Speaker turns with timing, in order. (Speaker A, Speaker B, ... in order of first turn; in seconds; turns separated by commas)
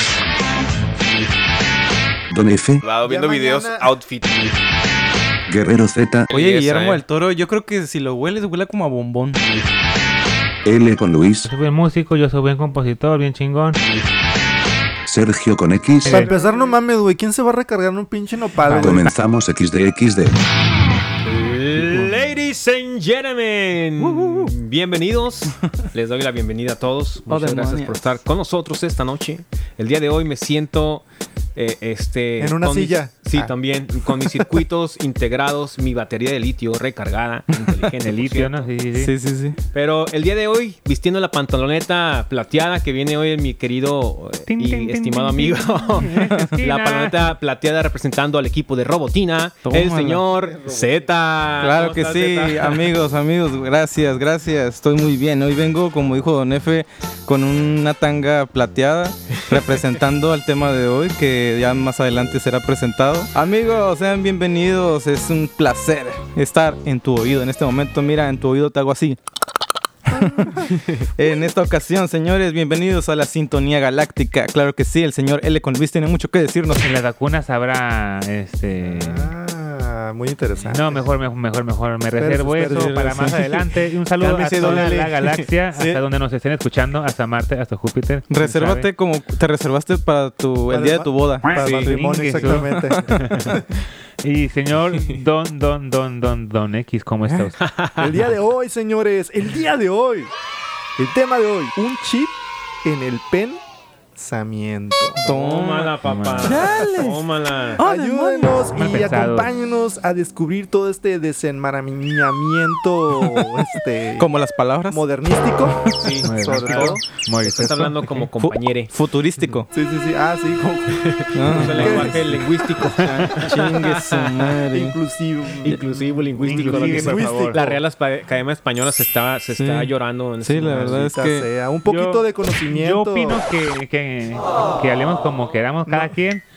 Speaker A: 2.3-2.8, Speaker B: 2.8-4.5, Speaker C: 3.0-3.9, Speaker A: 5.5-6.3, Speaker B: 6.3-7.0, Speaker D: 6.3-9.4, Speaker A: 10.6-11.5, Speaker E: 11.5-13.8, Speaker A: 15.1-16.3, Speaker E: 16.0-16.3, Speaker C: 16.0-19.1, Speaker D: 18.7-19.1, Speaker A: 18.7-20.4, Speaker B: 21.2-31.0, Speaker D: 24.0-24.5, Speaker D: 27.3-27.9, Speaker B: 31.6-38.6, Speaker C: 32.4-33.5, Speaker D: 37.5-37.8, Speaker E: 38.0-39.1, Speaker D: 38.9-39.6, Speaker B: 39.7-52.9, Speaker E: 44.5-47.2, Speaker D: 46.1-46.6, Speaker D: 49.6-50.2, Speaker D: 51.6-69.2, Speaker B: 59.4-59.6, Speaker D: 70.1-76.9, Speaker B: 70.7-71.0, Speaker E: 76.7-79.3, Speaker C: 78.8-81.1, Speaker E: 80.7-88.9, Speaker C: 82.2-83.0, Speaker D: 82.6-83.7, Speaker C: 84.2-85.2, Speaker B: 84.5-85.4, Speaker D: 85.7-86.0, Speaker D: 88.3-91.6, Speaker C: 90.7-93.6, Speaker B: 91.6-91.9, Speaker E: 91.7-93.5, Speaker E: 94.2-97.6, Speaker B: 97.6-98.2, Speaker C: 98.0-100.3, Speaker C: 101.0-103.6, Speaker C: 104.2-105.2, Speaker D: 105.2-107.2, Speaker B: 105.2-107.8, Speaker E: 106.0-106.6, Speaker D: 107.8-108.7, Speaker C: 107.8-114.3, Speaker E: 108.7-109.5, Speaker D: 114.2-115.0, Speaker C: 114.9-117.0, Speaker B: 116.0-118.9, Speaker E: 116.2-118.2, Speaker D: 118.4-119.7, Speaker C: 119.7-122.5, Speaker B: 120.9-124.3, Speaker D: 121.3-125.0, Speaker E: 123.0-123.3, Speaker C: 124.7-127.6, Speaker B: 125.6-131.1, Speaker E: 126.4-127.7, Speaker D: 129.5-131.5, Speaker C: 130.7-133.4, Speaker E: 131.8-136.4, Speaker C: 135.9-136.1